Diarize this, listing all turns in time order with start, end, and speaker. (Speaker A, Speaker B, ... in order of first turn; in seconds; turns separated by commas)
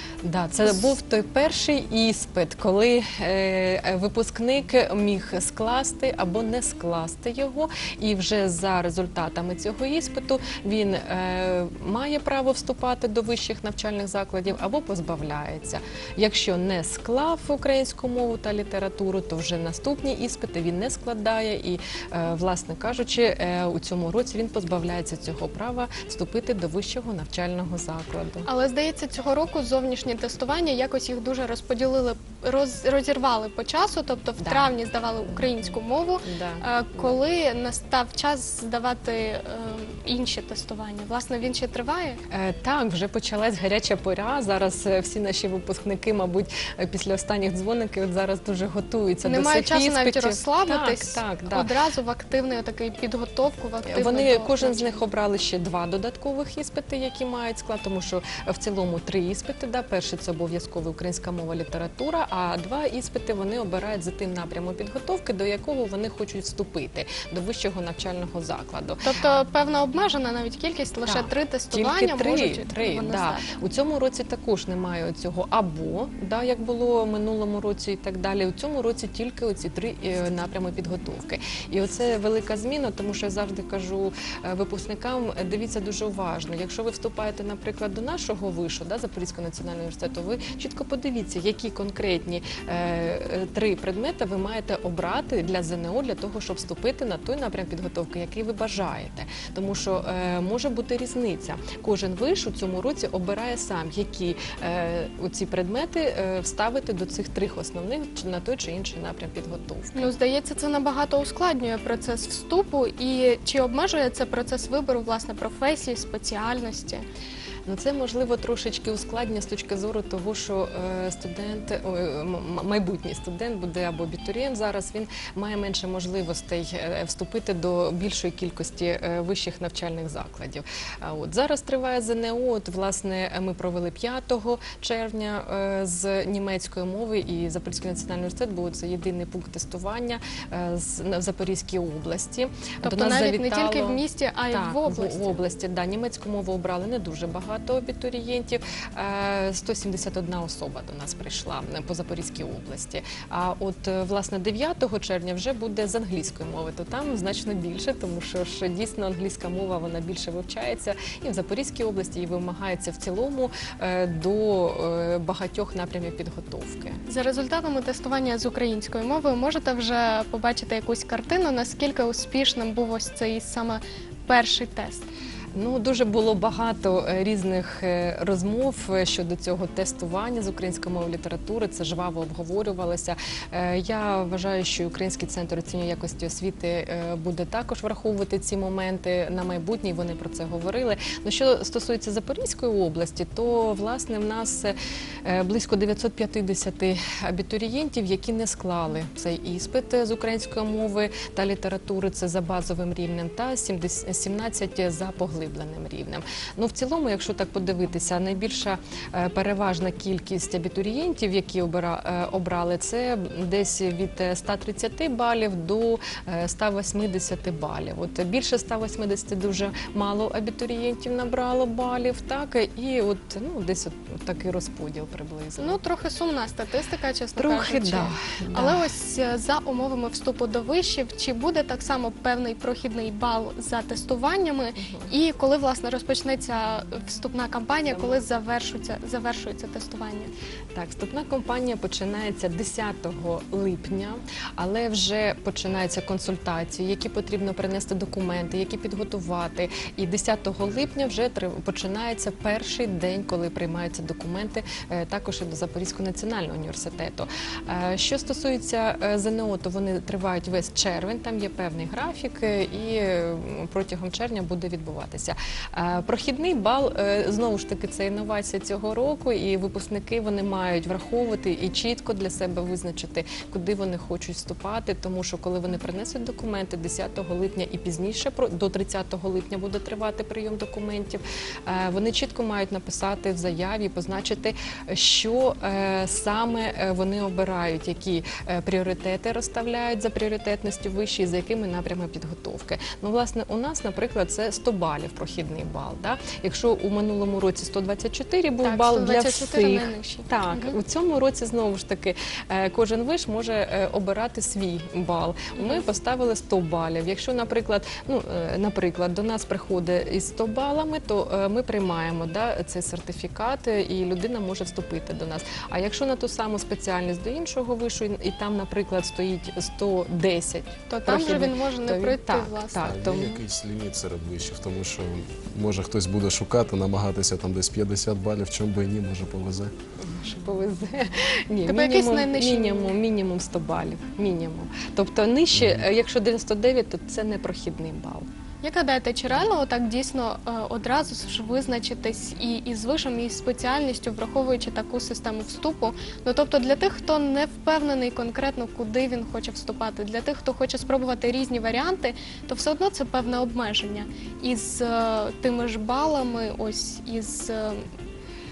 Speaker A: 0.2-28.5, Speaker B: 0.6-0.9, Speaker B: 28.4-42.2, Speaker A: 34.4-34.7, Speaker A: 35.2-37.2, Speaker A: 42.3-51.7, Speaker B: 49.2-55.0, Speaker A: 53.8-69.3, Speaker B: 69.0-73.5, Speaker A: 71.0-110.1, Speaker B: 109.9-117.0, Speaker A: 117.7-167.0, Speaker B: 142.8-145.4, Speaker B: 167.1-175.1, Speaker A: 175.5-225.8, Speaker B: 225.6-240.3, Speaker A: 227.4-228.9, Speaker A: 234.8-235.1, Speaker A: 237.9-238.4, Speaker A: 240.7-323.4, Speaker B: 298.6-300.8, Speaker B: 305.5-305.8, Speaker B: 320.9-322.8, Speaker C: 322.8-329.7, Speaker A: 330.0-338.2, Speaker B: 331.6-332.9, Speaker C: 335.6-335.8, Speaker B: 338.6-357.9